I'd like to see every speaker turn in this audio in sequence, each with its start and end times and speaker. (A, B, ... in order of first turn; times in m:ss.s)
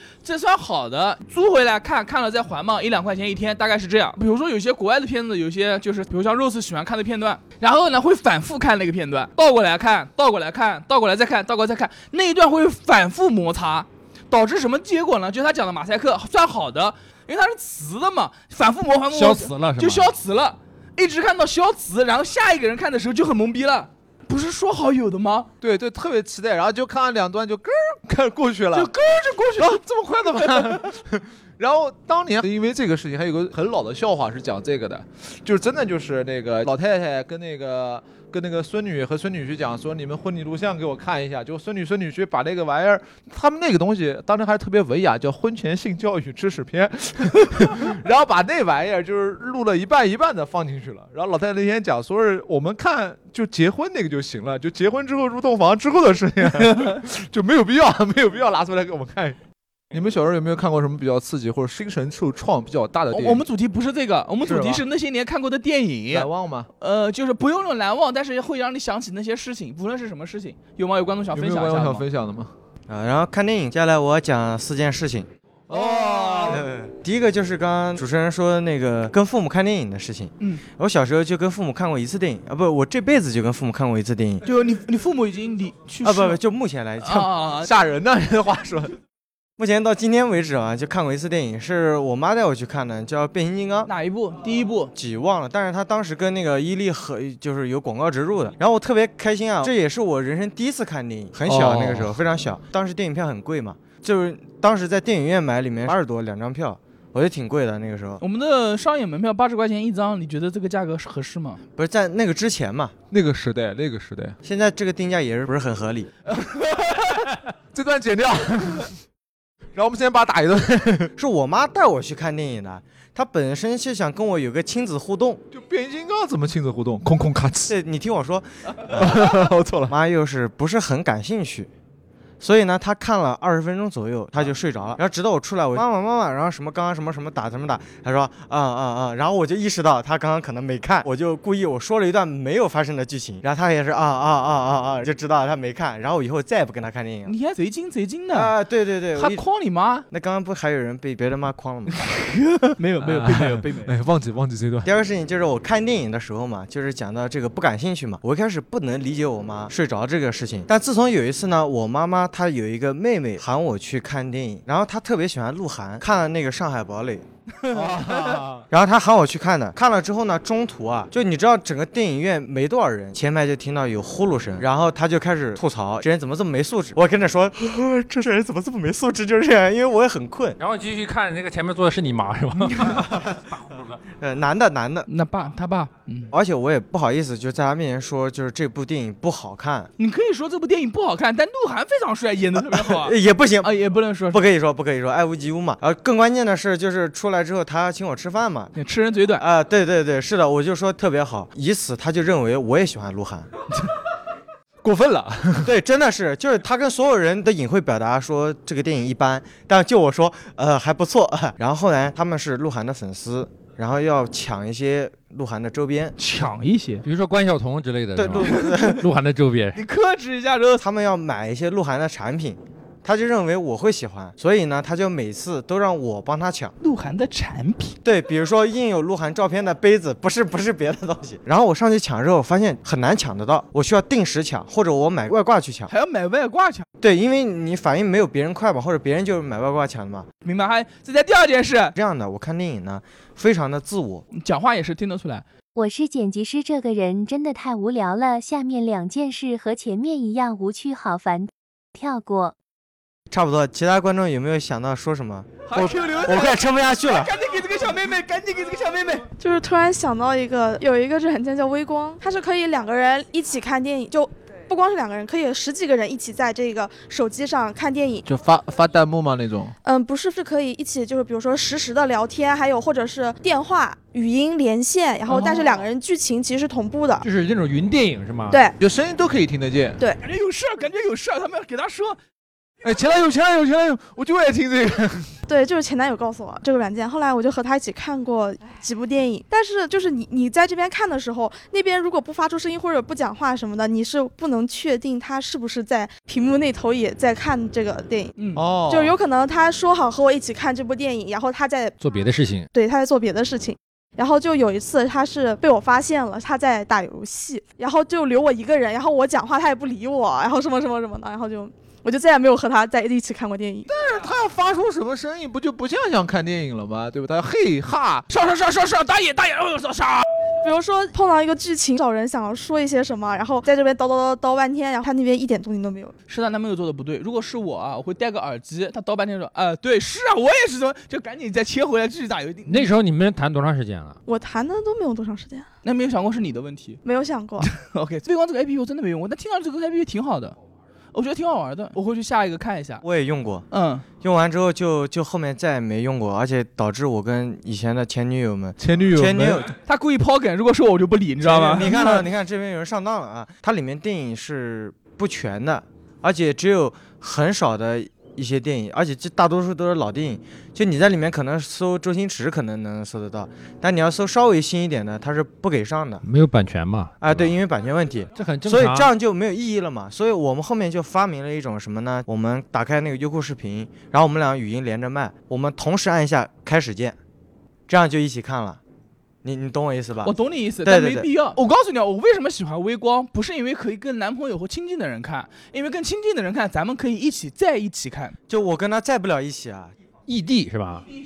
0:00.2-0:25.5 A
0:19.1-0:20.1 B
0:25.6-0:28.9 C
0:28.7-0:29.8 A
0:29.6-0:59.4 C
0:30.4-0:30.7 A
0:59.9-1:03.4 C
1:03.1-1:12.0 A
1:04.4-1:04.8 C
1:06.1-1:06.7 C
1:11.3-1:12.5 C
1:12.9-1:15.3 D
1:15.7-1:16.6 C
1:15.7-1:16.6 A
1:16.5-1:24.4 D
1:24.4-1:26.4 A
1:26.0-1:27.3 D
1:27.0-1:27.7 A
1:27.6-1:29.0 C
1:29.6-1:33.9 D
1:33.9-1:34.9 A
1:35.0-1:48.2 D
1:41.5-1:42.2 C
1:48.2-1:51.6 A
1:51.8-1:52.9 D
1:53.1-1:54.4 C
1:54.4-1:56.1 D
1:56.3-1:57.2 A
1:57.7-1:58.9 C
1:59.8-2:01.1 C
2:01.2-2:05.4 D
2:05.5-2:07.7 C
2:07.7-2:11.7 D
2:08.9-2:10.0 C
2:12.4-2:27.3 D
2:27.3-2:28.5 A
2:28.3-2:29.4 D
2:29.2-2:30.1 A
2:30.1-2:32.0 D
2:32.0-2:33.9 A
2:33.0-2:34.9 C
2:34.8-2:47.2 D
2:47.6-2:48.4 A
2:47.7-2:48.6 C
2:48.7-3:00.6 D
3:00.6-3:04.0 B
3:04.2-3:05.1 D
3:05.1-3:06.3 A
3:06.3-3:09.9 D
3:10.0-3:14.4 A
3:12.8-3:13.8 D
3:14.3-3:18.7 D
3:18.8-3:19.4 A
3:19.4-3:23.5 D
3:24.8-3:25.7 C
3:25.6-3:36.2 D
3:36.2-3:37.0 A
3:37.0-3:39.8 B
3:38.2-3:39.0 D
3:38.4-3:39.0 A
3:39.8-3:40.8 A
3:40.8-3:46.7 D
3:46.8-3:48.0 A
3:48.0-3:55.9 D
3:55.9-3:56.8 A
3:57.0-4:00.3 D
4:00.4-4:02.0 A
4:02.0-4:04.2 D
4:04.3-4:05.5 A
4:05.7-4:12.6 E
4:13.3-4:17.3 D
4:15.7-4:19.3 A
4:19.4-4:28.2 F
4:28.2-4:29.7 C
4:29.8-4:37.2 F
4:35.3-4:35.8 A
4:37.2-4:38.6 B
4:38.8-4:40.0 C
4:40.2-4:42.2 A
4:42.8-4:45.3 C
4:45.5-4:58.4 F
4:58.4-4:58.6 A
4:58.6-4:59.2 C
4:58.9-5:02.0 F
5:02.0-5:02.7 B
5:02.7-5:13.9 F
5:13.9-5:18.3 C
5:18.3-5:20.3 A
5:20.6-5:26.2 F
5:26.3-5:32.9 A
5:32.7-5:34.2 B
5:34.3-5:35.7 F
5:35.8-5:37.0 A
5:37.0-5:37.7 F
5:37.6-5:40.6 A
5:41.1-5:43.0 A
5:43.0-5:43.7 D
5:43.7-5:44.0 A
5:44.2-5:49.7 D
5:48.8-5:49.7 C
5:49.8-5:52.2 A
5:51.4-6:06.2 D
6:06.2-6:07.6 B
6:07.2-6:17.2 D
6:08.4-6:09.1 B
6:17.9-6:18.8 D
6:19.4-6:21.5 D
6:20.2-6:28.4 A
6:28.5-6:29.9 D
6:30.3-6:31.1 B